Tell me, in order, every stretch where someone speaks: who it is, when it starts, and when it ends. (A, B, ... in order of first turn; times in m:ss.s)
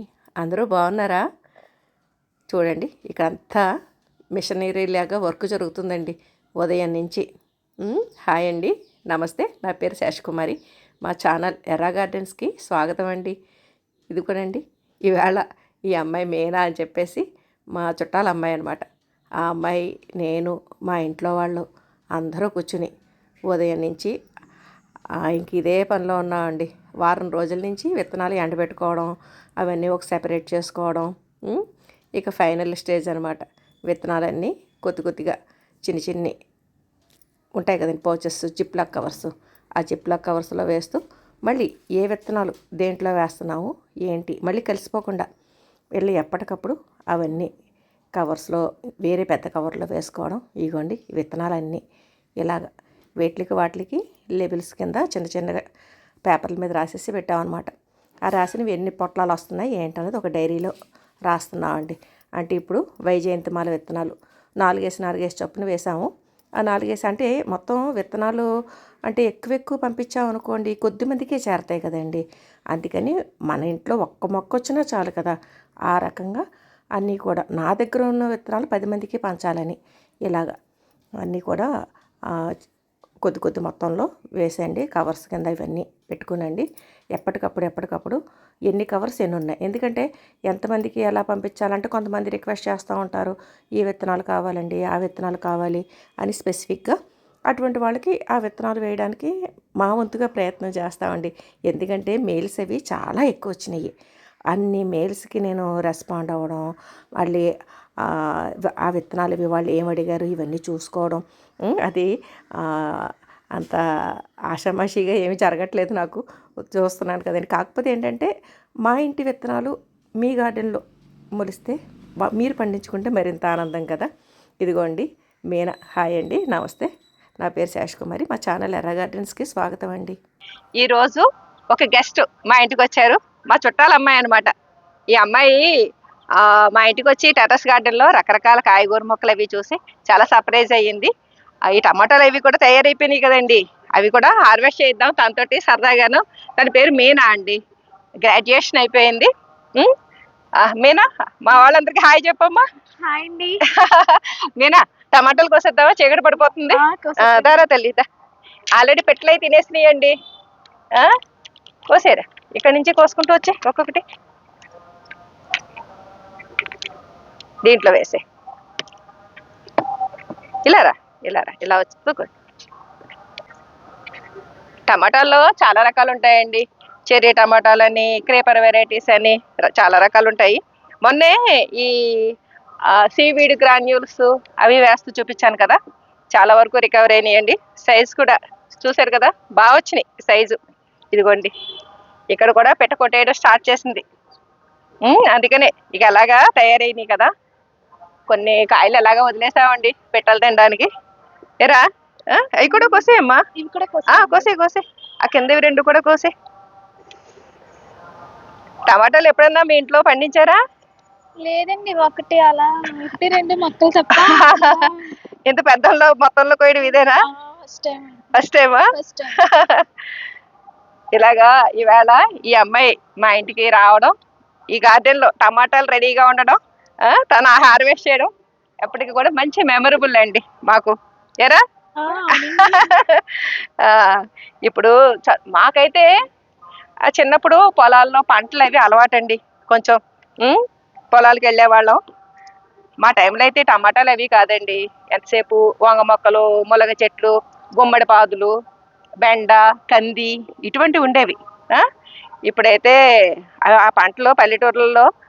0:00.4-0:01.2 A
0:02.5-0:03.6 A
0:04.4-0:07.2 A
0:07.8-0:13.4 A
0:14.1-0:17.2 A
0:17.8-0:18.8 A
0:19.4-0:21.6 A
0:22.2-0:22.9 A
0:23.5-0:24.1 A
0:25.2-0:31.6 A
0:32.2-0:35.3 A
0:35.9-0:36.3 A
0:37.6-0:45.3 A
0:46.0-0:47.5 A
0:48.2-0:51.8 A
0:53.2-0:55.6 A
0:56.2-0:57.7 A
0:58.3-1:00.8 A
1:01.3-1:06.1 A
1:06.6-1:08.5 A
1:09.1-1:12.2 A
1:12.7-1:15.3 A
1:15.9-1:16.4 A
1:17.0-1:20.5 A
1:21.2-1:21.7 A
1:23.2-1:28.2 A
1:28.7-1:37.0 A
1:37.5-1:43.9 A
1:44.5-1:46.7 A
1:47.2-1:47.5 A
1:48.8-1:52.1 A
1:52.6-1:53.8 A
1:54.5-1:56.2 A
1:56.8-1:58.3 A
1:58.8-2:00.8 A
2:01.4-2:01.8 A
2:02.3-2:04.1 A
2:04.6-2:06.9 A
2:07.4-2:10.2 A
2:10.8-2:14.5 B
2:15.2-2:15.7 B
2:16.4-2:21.1 B
2:21.7-2:27.6 B
2:28.2-2:29.9 B
2:30.6-2:32.6 B
2:33.0-2:33.6 C
2:33.7-2:38.0 B
2:36.7-2:37.7 C
2:38.8-2:40.1 B
2:41.9-2:44.0 B
2:47.6-2:48.2 B
2:50.7-2:52.3 B
2:54.9-3:02.3 B
3:02.9-3:05.8 B
3:06.4-3:10.6 B
3:11.1-3:11.5 B
3:12.3-3:14.0 B
3:15.0-3:17.3 B
3:18.3-3:20.9 B
3:22.3-3:23.4 B
3:22.7-3:24.5 C
3:24.1-3:26.3 B
3:28.9-3:30.6 B
3:31.4-3:35.1 C
3:34.1-3:34.8 B
3:35.5-3:37.2 B
3:36.8-3:38.3 C
3:38.3-3:39.8 B
3:38.9-3:39.4 C
3:41.2-3:44.1 B
3:44.7-3:46.6 B
3:47.1-3:48.3 B
3:48.8-3:51.6 B
3:52.0-3:52.9 C
3:52.4-3:56.1 B
3:57.1-4:00.6 B
4:01.1-4:02.0 B
4:03.0-4:08.5 B
4:09.2-4:11.8 B
4:12.5-4:13.0 B
4:13.6-4:15.1 B